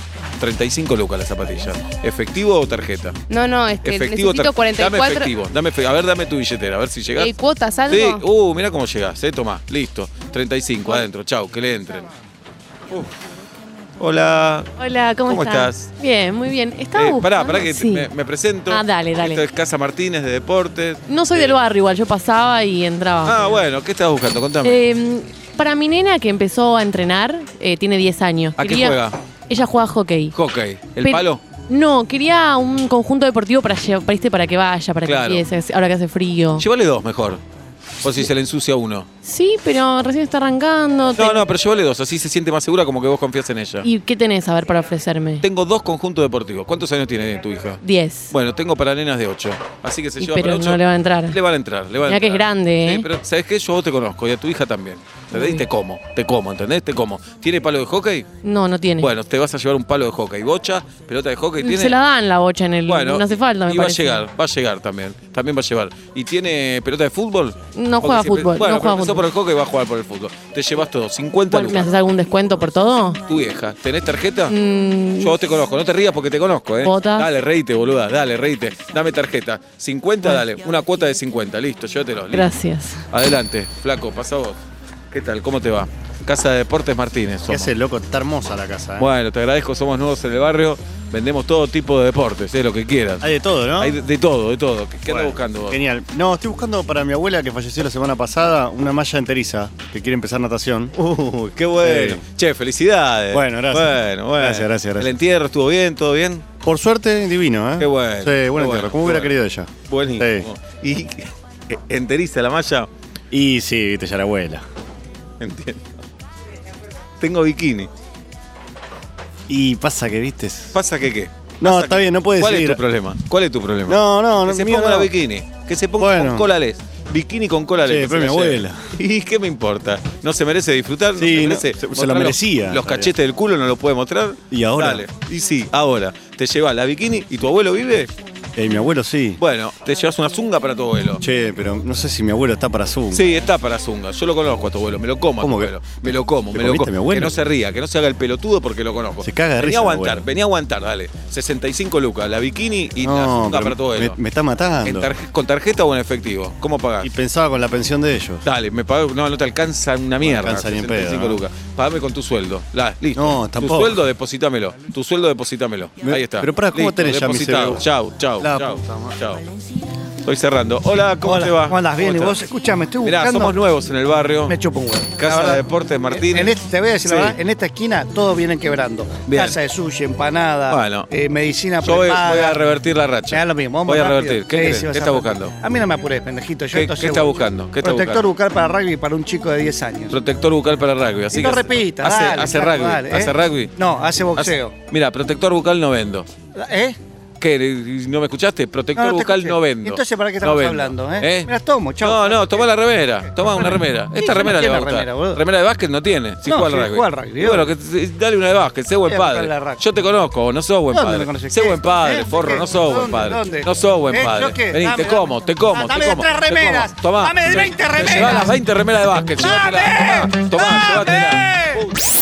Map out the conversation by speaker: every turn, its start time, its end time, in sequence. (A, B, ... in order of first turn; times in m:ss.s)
0:00.4-0:03.2 A
0:03.3-0:05.3 B
0:03.8-0:07.3 A
0:07.2-0:08.2 B
0:07.9-0:12.1 A
0:14.0-0:14.7 A
0:14.8-0:18.1 C
0:15.3-0:15.9 A
0:16.9-0:21.6 A
0:18.7-0:19.4 C
0:21.1-0:23.6 C
0:23.2-0:24.8 A
0:24.6-0:30.3 C
0:28.6-0:29.2 A
0:30.3-0:31.4 A
0:31.0-0:36.6 C
0:35.0-0:35.4 A
0:36.5-0:37.4 A
0:38.0-0:39.1 A
0:39.2-0:41.4 C
0:41.1-0:43.9 A
0:43.8-0:45.4 C
0:45.4-0:58.3 A
0:47.8-0:48.3 C
0:50.2-0:51.4 C
0:52.0-0:53.1 C
0:55.3-0:55.6 C
0:58.4-0:59.1 C
0:59.0-1:02.0 A
1:01.6-1:04.2 C
1:02.9-1:11.9 A
1:07.7-1:09.2 C
1:11.5-1:13.2 C
1:13.3-1:14.5 A
1:14.5-1:15.4 C
1:15.2-1:22.5 A
1:16.8-1:17.3 C
1:22.3-1:23.0 C
1:23.1-1:24.6 A
1:25.1-1:27.7 A
1:27.5-1:29.1 D
1:29.0-1:35.8 A
1:33.2-1:34.0 D
1:35.0-1:40.9 D
1:41.0-1:46.4 A
1:41.8-1:42.2 D
1:43.3-1:45.1 D
1:46.6-1:50.5 D
1:47.8-1:49.3 A
1:49.9-1:52.9 A
1:53.3-1:54.6 D
1:55.4-1:55.9 A
1:57.2-1:57.9 A
1:59.5-2:00.8 D
2:00.7-2:18.1 A
2:01.6-2:02.8 D
2:03.9-2:05.1 D
2:06.0-2:06.5 D
2:07.8-2:08.9 D
2:11.1-2:13.1 D
2:14.5-2:15.0 D
2:18.6-2:19.4 D
2:19.4-2:21.2 A
2:21.2-2:23.3 D
2:23.1-2:34.2 A
2:25.4-2:27.4 D
2:29.2-2:30.3 D
2:33.0-2:35.1 D
2:34.8-2:37.1 A
2:37.0-2:38.4 D
2:38.4-2:49.4 A
2:40.2-2:41.4 D
2:43.1-2:44.0 D
2:46.0-2:47.8 D
2:48.4-2:48.8 E
2:50.2-2:52.4 A
2:51.2-2:53.5 E
2:53.0-2:54.6 A
2:54.5-3:02.6 E
2:55.1-2:57.4 A
2:59.2-2:59.6 A
3:00.7-3:01.1 A
3:01.8-3:05.5 A
3:03.3-3:10.2 E
3:06.7-3:08.2 A
3:10.1-3:13.8 A
3:11.3-3:14.7 E
3:14.3-3:16.3 A
3:16.5-3:17.0 E
3:17.4-3:41.9 A
3:19.0-3:22.7 E
3:23.4-3:25.4 E
3:26.4-3:27.7 E
3:29.0-3:29.8 E
3:30.9-3:38.6 E
3:39.4-3:41.9 E